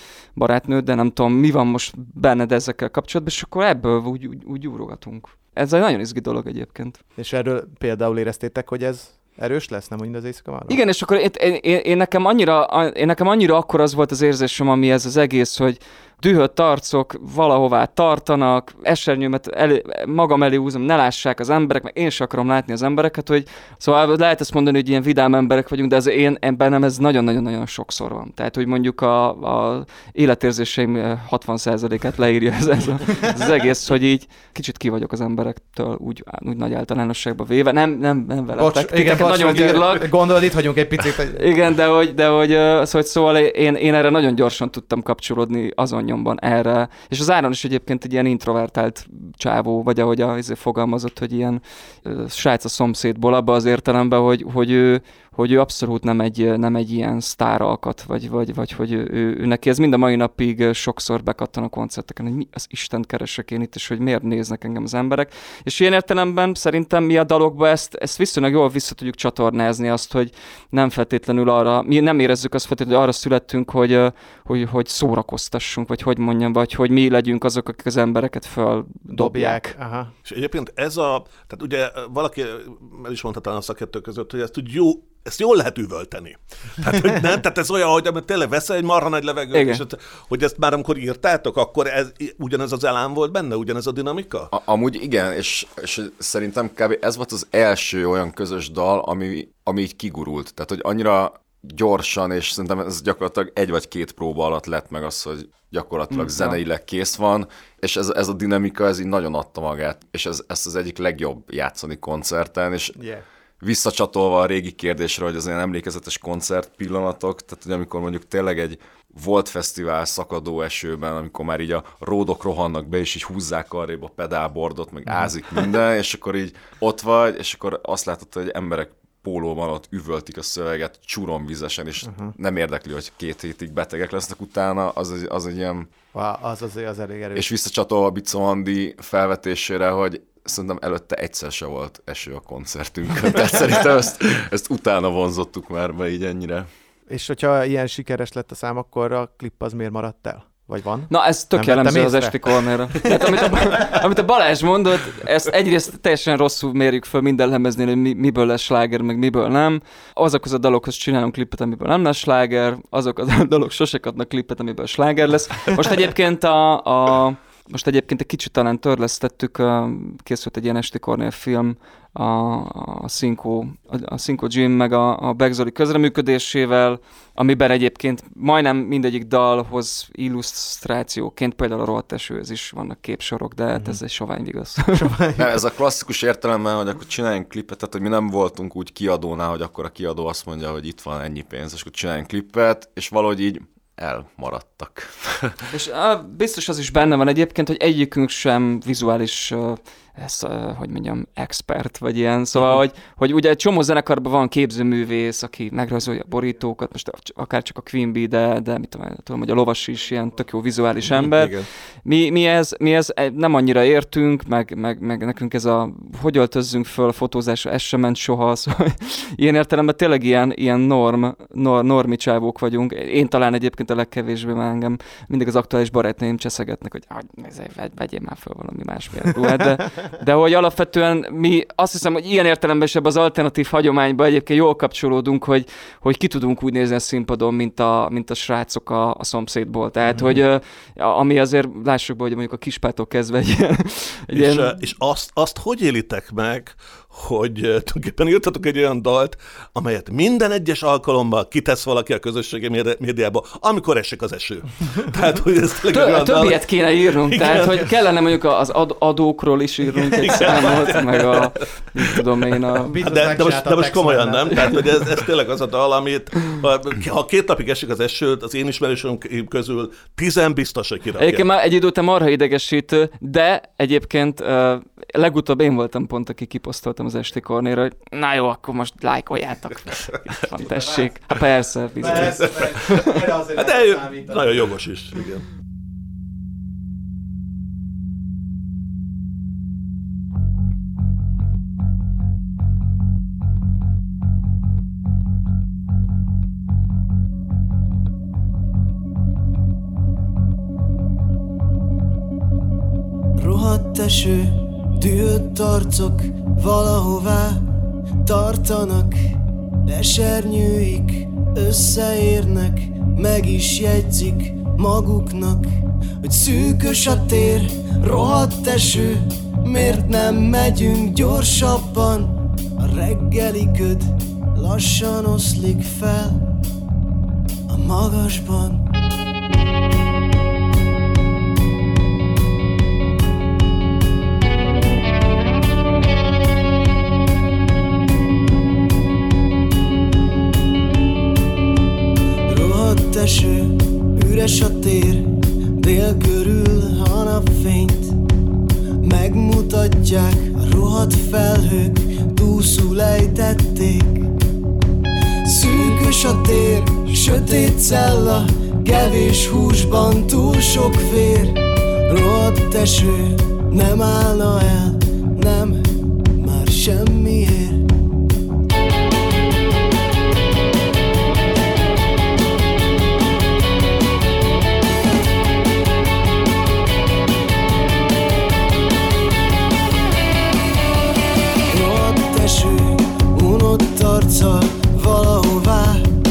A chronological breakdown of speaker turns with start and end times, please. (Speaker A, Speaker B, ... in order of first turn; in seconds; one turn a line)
Speaker A: 0.4-7.0
Speaker B: 7.2-10.8
Speaker A: 10.7-40.1
Speaker B: 38.6-41.4
Speaker A: 41.3-79.7
Speaker B: 79.1-80.1
Speaker C: 80.2-94.5
Speaker A: 89.5-89.8
Speaker D: 94.5-113.0
Speaker A: 106.1-106.6
Speaker B: 113.0-113.2
Speaker D: 113.6-135.9
Speaker B: 132.1-132.3
Speaker B: 136.1-137.5
Speaker D: 137.3-146.7
Speaker B: 147.1-153.9
Speaker A: 151.1-184.9
Speaker B: 184.9-185.6
Speaker D: 185.4-195.6
Speaker A: 195.7-211.5
Speaker C: 211.1-211.7
Speaker A: 212.1-244.7
Speaker B: 240.1-240.4
Speaker C: 244.3-257.9
Speaker A: 255.9-263.0
Speaker C: 260.2-261.5
Speaker B: 262.9-265.0
Speaker C: 263.0-271.5
Speaker A: 271.2-283.0
Speaker B: 280.6-281.1
Speaker B: 282.0-284.7
Speaker C: 282.1-285.5
Speaker E: 303.4-307.6
Speaker E: 308.2-309.2
Speaker E: 309.9-315.7
Speaker E: 316.2-326.5
Speaker E: 327.7-328.8
Speaker E: 342.5-348.1
Speaker E: 349.0-354.3
Speaker E: 355.4-367.9
Speaker E: 381.7-386.1